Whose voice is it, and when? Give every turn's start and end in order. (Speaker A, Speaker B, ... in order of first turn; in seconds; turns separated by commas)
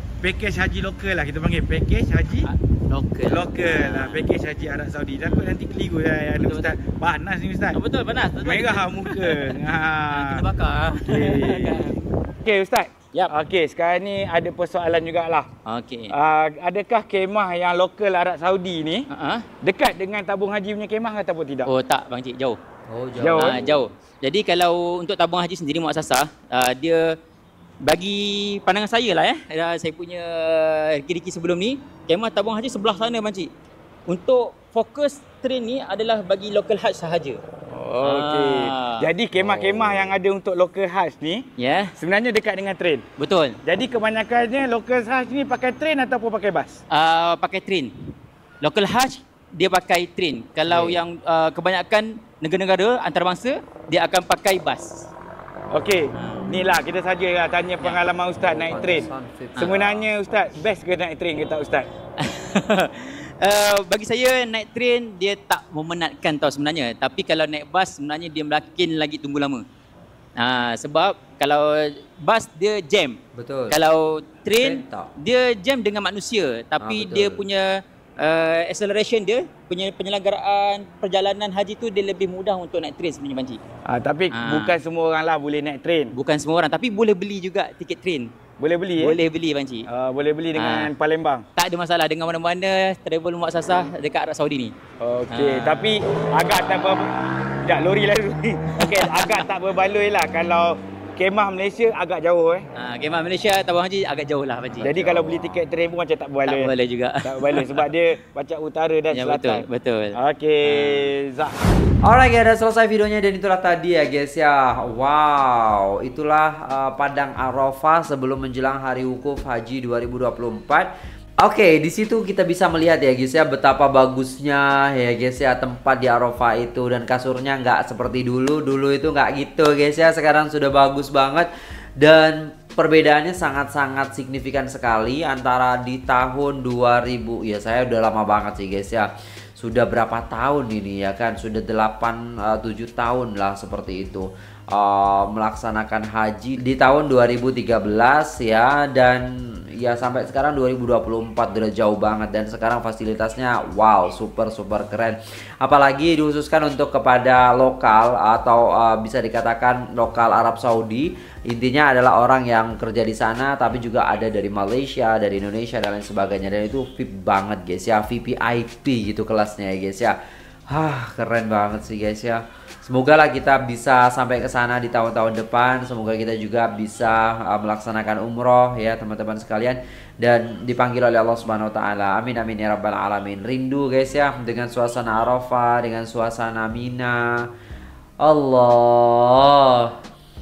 Speaker A: 0.2-2.5, Speaker B: 2.4-4.3, Speaker A: 3.2-7.8, Speaker B: 6.3-6.7, Speaker B: 7.7-12.0, Speaker A: 8.4-10.4, Speaker A: 11.0-15.5, Speaker B: 15.7-16.1, Speaker A: 16.1-19.1, Speaker B: 19.1-19.5, Speaker A: 19.6-21.7, Speaker B: 21.6-22.6, Speaker C: 22.9-23.9, Speaker A: 23.2-23.6, Speaker B: 23.3-27.1, Speaker B: 27.8-33.5, Speaker B: 34.1-37.4, Speaker A: 37.7-43.0, Speaker B: 38.0-39.1, Speaker C: 39.4-40.1, Speaker B: 41.6-41.9, Speaker B: 43.2-43.6, Speaker A: 43.6-46.8, Speaker B: 46.9-47.9, Speaker B: 48.6-55.1, Speaker C: 50.7-51.0, Speaker A: 55.7-61.9, Speaker B: 56.1-56.5, Speaker C: 58.4-60.1, Speaker B: 59.5-59.8, Speaker B: 62.2-69.6, Speaker B: 70.4-77.7, Speaker C: 73.3-73.8, Speaker C: 74.5-75.1, Speaker C: 76.8-77.4, Speaker B: 78.2-83.6, Speaker A: 83.8-86.1, Speaker B: 84.3-84.8, Speaker B: 86.1-88.3, Speaker A: 88.6-89.2, Speaker B: 89.0-89.9, Speaker A: 89.9-91.5, Speaker B: 90.5-90.9, Speaker B: 91.5-94.7, Speaker A: 95.0-102.7, Speaker B: 95.3-95.9, Speaker B: 98.8-99.5, Speaker B: 102.8-105.1, Speaker A: 104.8-106.7, Speaker C: 105.0-105.5, Speaker B: 106.5-107.9, Speaker A: 107.2-111.5, Speaker B: 109.1-111.1, Speaker C: 112.0-120.9, Speaker C: 121.4-131.5, Speaker C: 132.0-170.2, Speaker C: 170.7-187.3, Speaker C: 188.2-189.9